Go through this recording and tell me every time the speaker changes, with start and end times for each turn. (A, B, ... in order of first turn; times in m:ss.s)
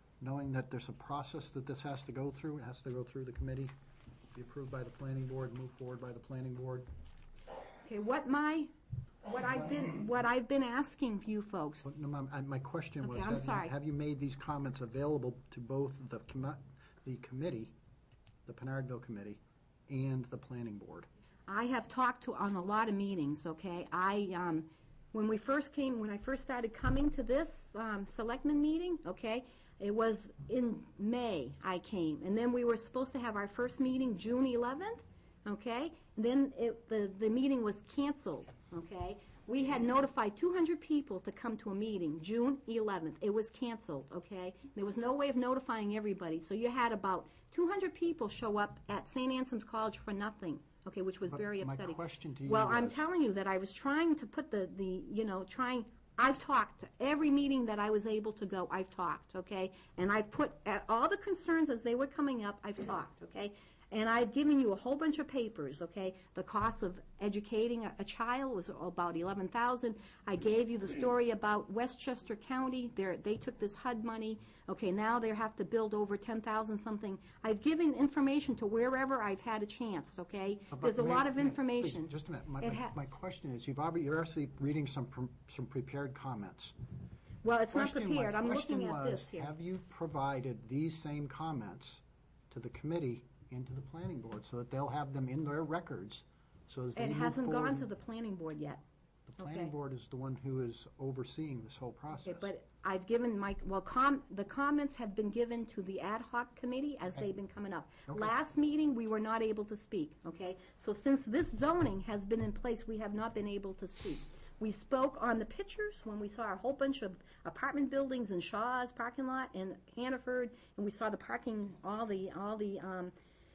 0:00.2-0:03.7 A
0:04.3-0:06.9 A
0:07.8-0:08.7 B
0:09.2-0:11.8 B
0:11.8-0:17.7 A
0:13.0-0:13.7 B
0:18.4-0:21.1 A
0:21.5-1:22.9 B
0:51.3-0:53.0 A
1:20.7-1:26.7 A
1:27.4-1:29.5 B
1:27.7-1:37.9 A
1:36.9-1:38.8 B
1:39.3-1:42.5 A
1:39.4-1:39.7 B
1:42.2-2:03.1 B
1:48.1-1:48.3 A